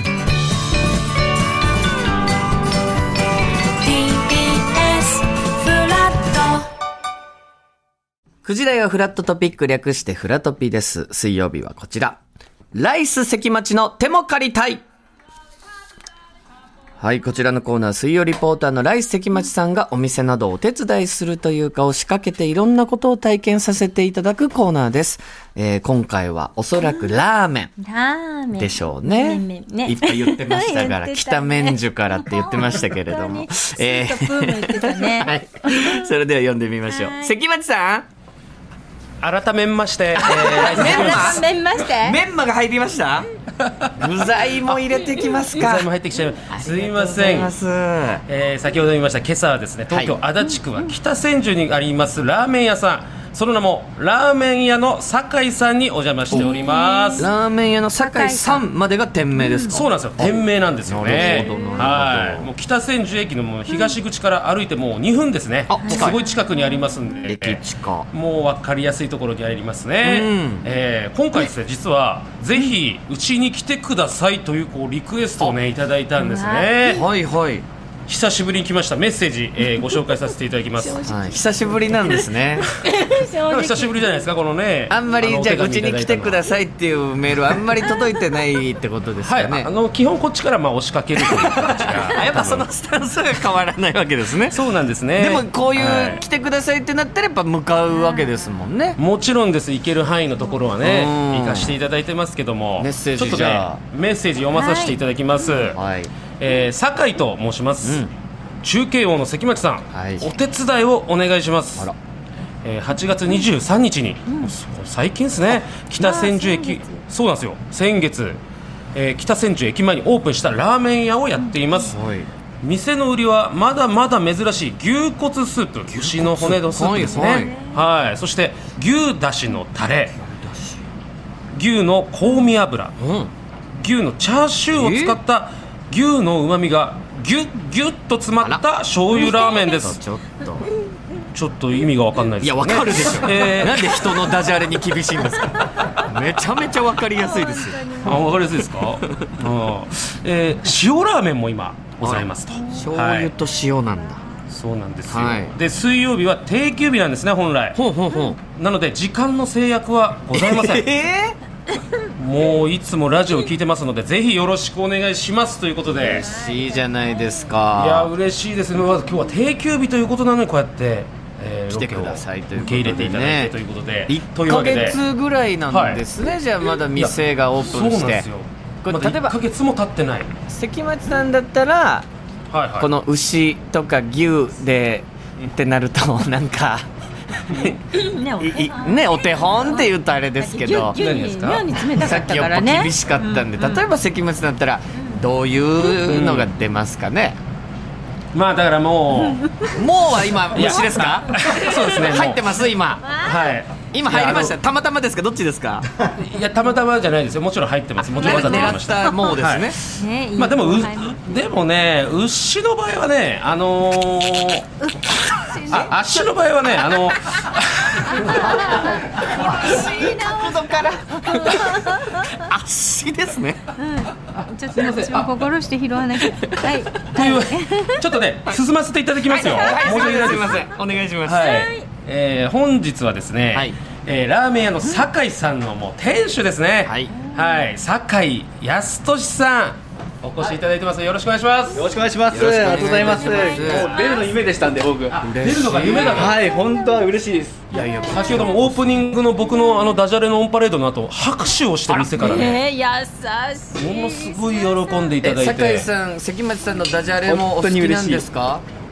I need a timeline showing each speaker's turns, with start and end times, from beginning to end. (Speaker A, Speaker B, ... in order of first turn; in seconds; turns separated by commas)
Speaker A: 3.8-6.6, Speaker B: 8.4-12.2, Speaker B: 12.7-14.8, Speaker B: 17.0-27.7, Speaker A: 27.8-36.0, Speaker B: 28.6-38.1, Speaker A: 36.9-37.4, Speaker C: 39.2-41.4, Speaker B: 40.1-43.3, Speaker A: 40.5-42.2, Speaker B: 43.9-45.9, Speaker C: 45.2-47.5, Speaker B: 46.5-48.2, Speaker C: 48.3-57.3, Speaker B: 49.9-50.1, Speaker A: 50.5-50.9, Speaker B: 56.3-56.6, Speaker A: 56.3-57.3, Speaker B: 57.2-62.5, Speaker A: 58.0-58.6, Speaker A: 59.4-59.8, Speaker C: 59.7-77.0, Speaker A: 61.1-61.9, Speaker A: 63.7-64.0, Speaker B: 65.7-66.2, Speaker A: 65.8-67.2, Speaker B: 67.3-68.1, Speaker B: 70.0-70.7, Speaker A: 76.2-77.0, Speaker B: 76.8-77.7, Speaker C: 78.1-81.0, Speaker A: 79.6-80.1, Speaker A: 80.8-84.3, Speaker B: 81.0-82.7, Speaker C: 83.5-86.4, Speaker B: 84.9-89.7, Speaker A: 87.8-88.2, Speaker C: 89.2-92.7, Speaker B: 91.2-94.6, Speaker C: 94.5-96.2, Speaker B: 95.2-99.0, Speaker A: 98.0-98.3, Speaker C: 99.0-105.8, Speaker B: 100.8-101.8, Speaker B: 102.8-103.8, Speaker A: 104.5-105.7, Speaker B: 105.7-106.1, Speaker C: 106.4-108.1, Speaker B: 107.8-108.1, Speaker C: 108.6-111.9, Speaker B: 109.9-110.3, Speaker C: 112.6-118.4, Speaker A: 116.0-117.0, Speaker C: 118.9-122.0, Speaker A: 121.4-121.9, Speaker B: 121.8-122.3, Speaker C: 122.6-130.2, Speaker B: 125.9-127.5, Speaker A: 127.2-127.8, Speaker B: 130.2-130.8, Speaker C: 131.5-133.0, Speaker B: 133.0-133.3, Speaker C: 133.8-140.0, Speaker B: 134.7-135.2, Speaker B: 138.4-140.7, Speaker A: 139.2-139.7, Speaker C: 141.3-144.3, Speaker B: 142.4-149.2, Speaker A: 147.2-148.3, Speaker C: 148.0-153.3, Speaker B: 152.0-154.2, Speaker A: 152.6-152.8, Speaker C: 154.5-157.8, Speaker B: 155.1-155.6, Speaker B: 157.8-158.4, Speaker C: 158.5-160.9, Speaker B: 160.3-161.4, Speaker C: 162.2-166.3, Speaker B: 166.2-168.1, Speaker C: 167.8-175.0, Speaker B: 171.7-173.6, Speaker B: 174.1-178.3, Speaker C: 175.7-176.0, Speaker C: 176.9-180.3, Speaker B: 178.8-179.4, Speaker B: 180.5-182.1, Speaker C: 182.5-182.9, Speaker B: 182.8-186.9, Speaker C: 187.5-187.8, Speaker A: 187.9-193.9, Speaker B: 188.4-191.0, Speaker C: 190.9-191.7, Speaker B: 191.9-197.4, Speaker A: 195.0-195.2, Speaker C: 196.1-196.5, Speaker C: 198.3-199.4, Speaker A: 199.2-199.8, Speaker B: 199.7-203.1, Speaker C: 200.5-202.5, Speaker A: 203.0-203.6, Speaker C: 203.2-204.6, Speaker B: 203.9-205.9, Speaker C: 206.0-214.7, Speaker B: 208.1-209.8, Speaker A: 208.2-209.3, Speaker A: 209.8-211.4, Speaker A: 214.8-216.1, Speaker C: 215.7-218.5, Speaker A: 218.1-222.4, Speaker B: 218.2-223.7, Speaker A: 223.8-228.1, Speaker C: 224.7-225.3, Speaker C: 227.1-230.7, Speaker B: 229.3-231.5, Speaker A: 229.4-230.6, Speaker C: 231.2-241.8, Speaker A: 231.4-231.9, Speaker B: 236.8-237.1, Speaker A: 237.1-237.7, Speaker D: 241.7-245.3, Speaker B: 242.3-243.9, Speaker A: 242.5-244.4, Speaker C: 243.7-244.1, Speaker C: 245.1-246.4, Speaker B: 245.2-246.3, Speaker D: 246.1-247.7, Speaker A: 246.3-247.1, Speaker C: 247.8-252.6, Speaker B: 247.8-248.6, Speaker A: 247.8-248.5, Speaker A: 249.4-250.0, Speaker B: 251.9-252.5, Speaker A: 252.0-255.1, Speaker C: 253.8-255.9, Speaker B: 255.2-258.6, Speaker D: 257.2-258.3